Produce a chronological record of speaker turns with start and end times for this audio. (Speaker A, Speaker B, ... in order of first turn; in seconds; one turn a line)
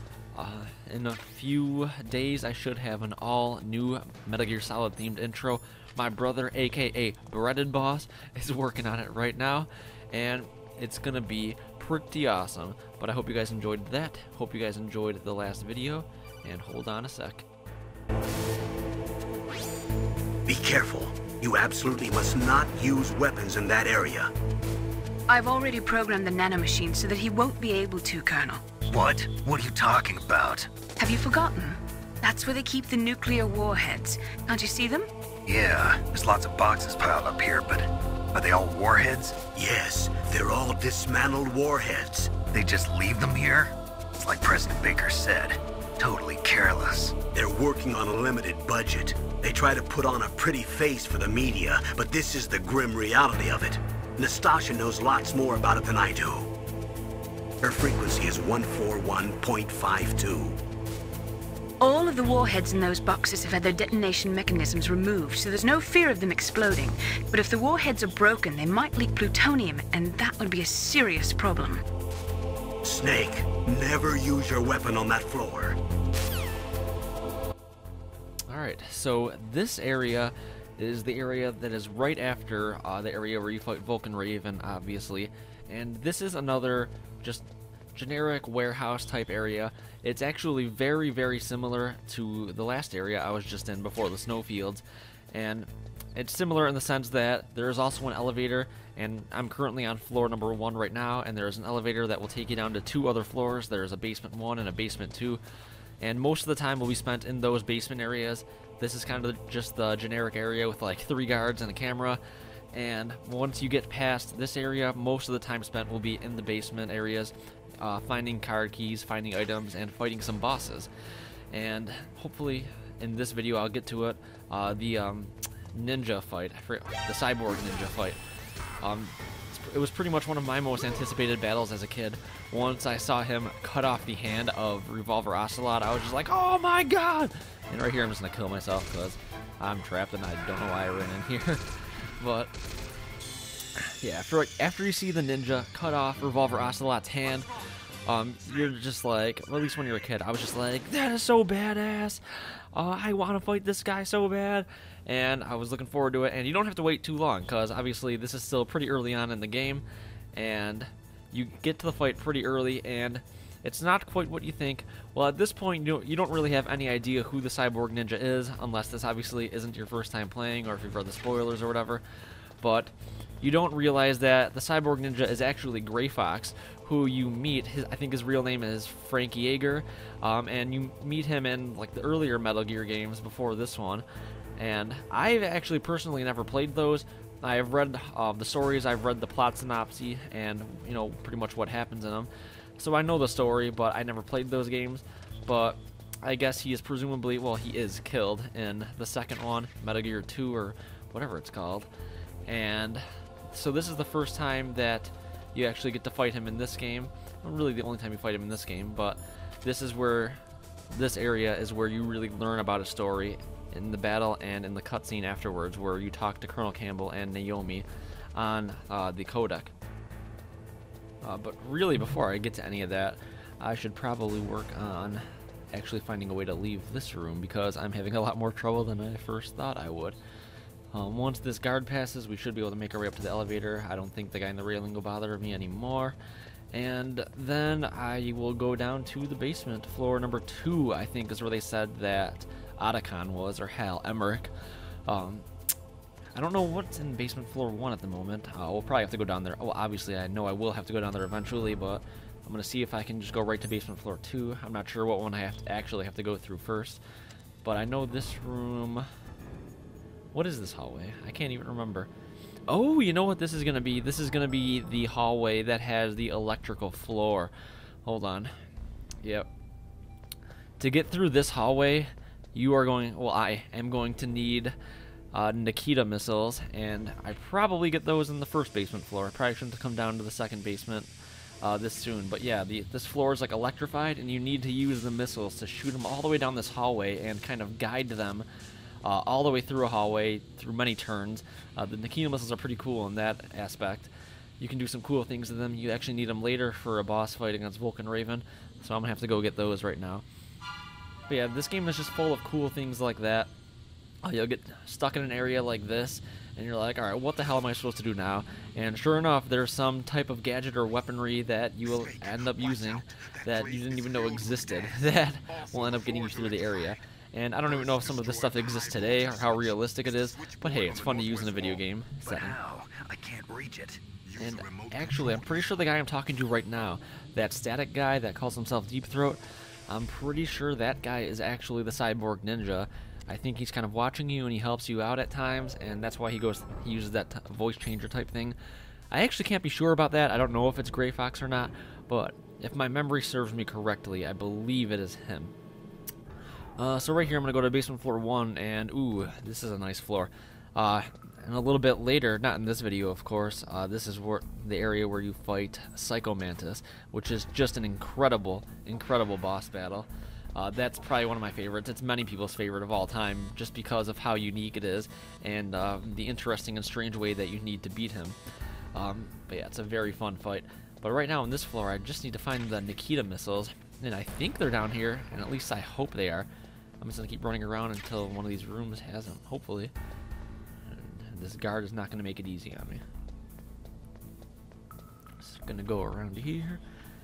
Speaker A: 0.3-17.4
Speaker B: 20.4-24.3
Speaker C: 25.3-28.6
Speaker D: 28.9-30.7
Speaker C: 31.0-35.1
Speaker D: 35.5-39.4
Speaker B: 39.5-42.4
Speaker D: 42.5-47.2
Speaker B: 47.3-56.5
Speaker B: 57.6-60.6
Speaker C: 61.8-71.8
Speaker B: 72.8-75.8
Speaker A: 78.5-105.4
Speaker A: 106.0-112.2
Speaker A: 112.7-120.9
Speaker A: 121.5-128.2
Speaker A: 128.8-141.6
Speaker A: 142.2-142.6
Speaker A: 143.8-147.5
Speaker A: 148.1-172.0
Speaker A: 172.6-184.1
Speaker A: 184.6-201.9
Speaker A: 202.4-219.7
Speaker A: 221.2-230.2
Speaker A: 230.9-236.2
Speaker A: 236.7-244.5
Speaker A: 245.1-245.4
Speaker A: 246.3-257.0
Speaker A: 257.6-259.1
Speaker A: 260.3-262.1
Speaker A: 262.7-267.5
Speaker A: 268.0-268.5
Speaker A: 269.2-269.5
Speaker A: 270.8-274.7
Speaker A: 275.3-288.5
Speaker A: 289.0-300.2
Speaker A: 301.3-303.5
Speaker A: 304.2-322.6
Speaker D: 322.2-324.0
Speaker A: 324.4-338.6
Speaker A: 339.1-345.5
Speaker A: 346.8-368.4
Speaker A: 368.9-376.5
Speaker A: 377.0-379.9
Speaker A: 380.9-383.0
Speaker A: 385.4-386.8